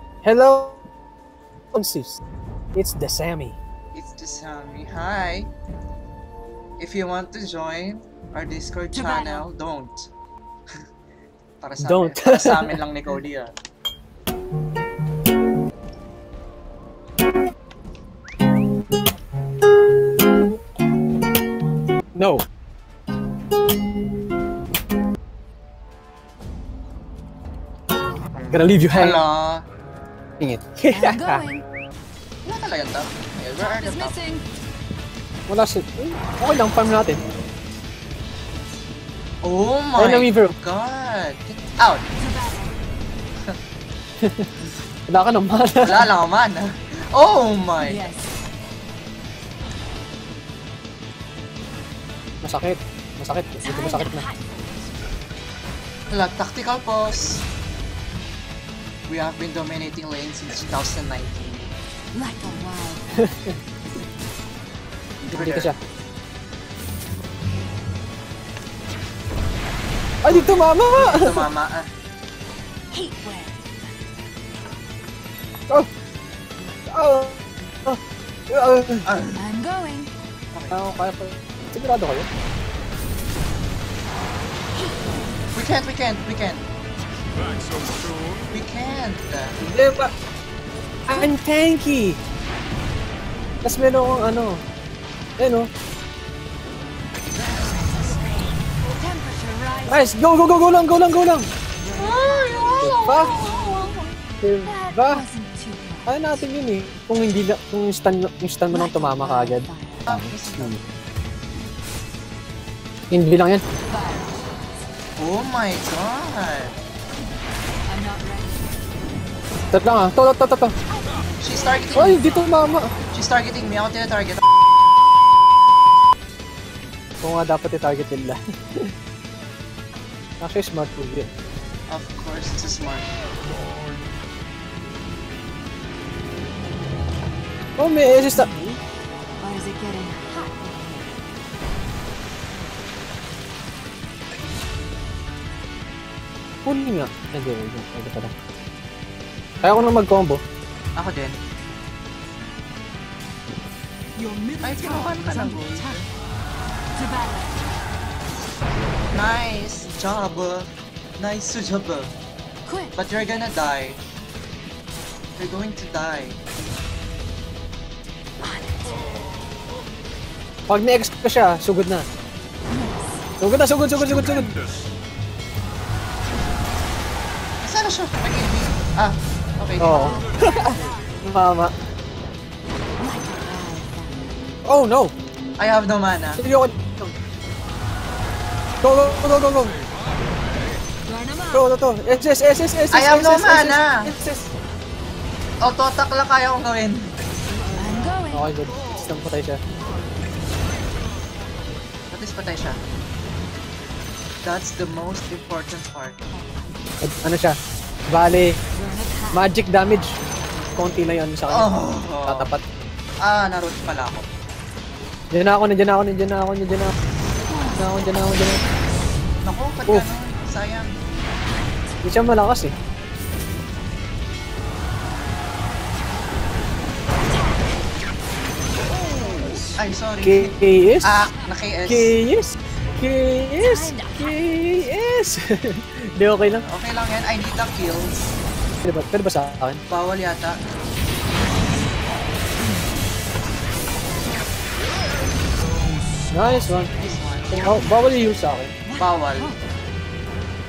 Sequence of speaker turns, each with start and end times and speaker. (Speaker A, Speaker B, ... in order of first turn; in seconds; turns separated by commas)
Speaker A: 0.2-0.8, Speaker A: 1.7-2.2, Speaker A: 2.8-3.6, Speaker B: 3.9-5.5, Speaker B: 6.8-10.1, Speaker C: 8.9-9.5, Speaker B: 11.6-13.5, Speaker A: 11.8-12.8, Speaker A: 22.2-22.4, Speaker A: 28.5-29.2, Speaker B: 28.9-29.7, Speaker A: 30.4-31.4, Speaker C: 30.9-31.6, Speaker B: 32.4-34.2, Speaker C: 33.6-34.5, Speaker A: 35.5-37.2, Speaker B: 39.4-42.1, Speaker A: 40.0-40.5, Speaker C: 42.2-42.8, Speaker A: 44.2-44.5, Speaker A: 45.1-46.1, Speaker B: 45.8-48.1, Speaker C: 47.8-48.4, Speaker A: 52.4-54.2, Speaker C: 53.6-54.7, Speaker B: 56.1-57.4, Speaker B: 59.1-61.7, Speaker C: 62.1-63.3, Speaker A: 63.2-63.6, Speaker B: 65.2-65.7, Speaker A: 65.3-65.8, Speaker A: 70.2-71.5, Speaker B: 70.2-71.9, Speaker C: 72.9-73.7, Speaker A: 76.9-79.1, Speaker B: 79.0-79.4, Speaker C: 79.4-80.1, Speaker B: 80.5-80.8, Speaker A: 80.7-82.3, Speaker B: 85.5-86.6, Speaker B: 88.5-89.6, Speaker A: 89.6-90.1, Speaker A: 91.1-92.2, Speaker A: 93.6-94.6, Speaker A: 95.4-95.7, Speaker C: 97.5-100.1, Speaker A: 99.9-101.5, Speaker C: 101.8-104.0, Speaker B: 102.0-104.1, Speaker A: 102.8-103.3, Speaker A: 104.4-105.2, Speaker C: 104.7-106.3, Speaker A: 106.1-110.8, Speaker C: 108.7-110.2, Speaker B: 110.1-110.8, Speaker A: 113.1-113.6, Speaker C: 113.9-114.5, Speaker B: 115.2-116.8, Speaker C: 117.9-118.7, Speaker A: 119.7-120.8, Speaker C: 120.9-122.6, Speaker B: 121.4-122.4, Speaker A: 122.0-122.9, Speaker B: 123.1-124.4, Speaker A: 127.2-128.9, Speaker A: 130.4-131.3, Speaker B: 131.9-133.1, Speaker A: 137.8-138.5, Speaker C: 138.3-138.8, Speaker C: 139.4-141.2, Speaker A: 146.6-148.3, Speaker B: 149.6-149.8, Speaker A: 149.6-150.4, Speaker B: 150.9-151.4, Speaker C: 154.2-156.0, Speaker B: 154.6-156.1, Speaker C: 157.0-157.7, Speaker B: 159.1-162.1, Speaker C: 162.7-162.9, Speaker B: 162.9-164.0, Speaker B: 165.4-166.4, Speaker C: 168.4-169.1, Speaker A: 170.7-172.1, Speaker C: 172.7-173.3, Speaker A: 173.4-174.6, Speaker B: 177.6-180.2, Speaker A: 179.8-181.8, Speaker C: 180.0-181.1, Speaker C: 183.0-184.4, Speaker A: 184.7-185.1, Speaker B: 185.6-186.4, Speaker A: 186.4-187.1, Speaker A: 188.8-189.8, Speaker C: 191.1-191.7, Speaker A: 191.5-194.5, Speaker B: 192.9-194.1, Speaker B: 195.6-197.1, Speaker C: 197.6-198.6, Speaker A: 198.3-199.6, Speaker B: 198.7-199.1, Speaker C: 199.8-200.1, Speaker B: 202.1-202.8, Speaker B: 204.4-206.2, Speaker A: 207.0-207.6, Speaker A: 208.1-208.6, Speaker C: 208.8-209.5, Speaker A: 209.3-210.2, Speaker A: 210.8-212.6, Speaker B: 211.5-212.5, Speaker B: 213.2-214.3, Speaker A: 215.3-216.9, Speaker C: 217.5-217.8, Speaker A: 217.8-218.6, Speaker B: 219.4-220.9, Speaker A: 222.0-222.8, Speaker C: 229.0-229.7, Speaker B: 229.8-232.2, Speaker A: 230.2-231.2, Speaker A: 231.9-236.6, Speaker C: 233.6-234.4, Speaker B: 236.4-238.2, Speaker A: 238.8-239.8, Speaker B: 239.9-240.6, Speaker A: 246.3-246.9, Speaker B: 247.0-249.5, Speaker A: 247.5-248.7, Speaker C: 248.9-249.6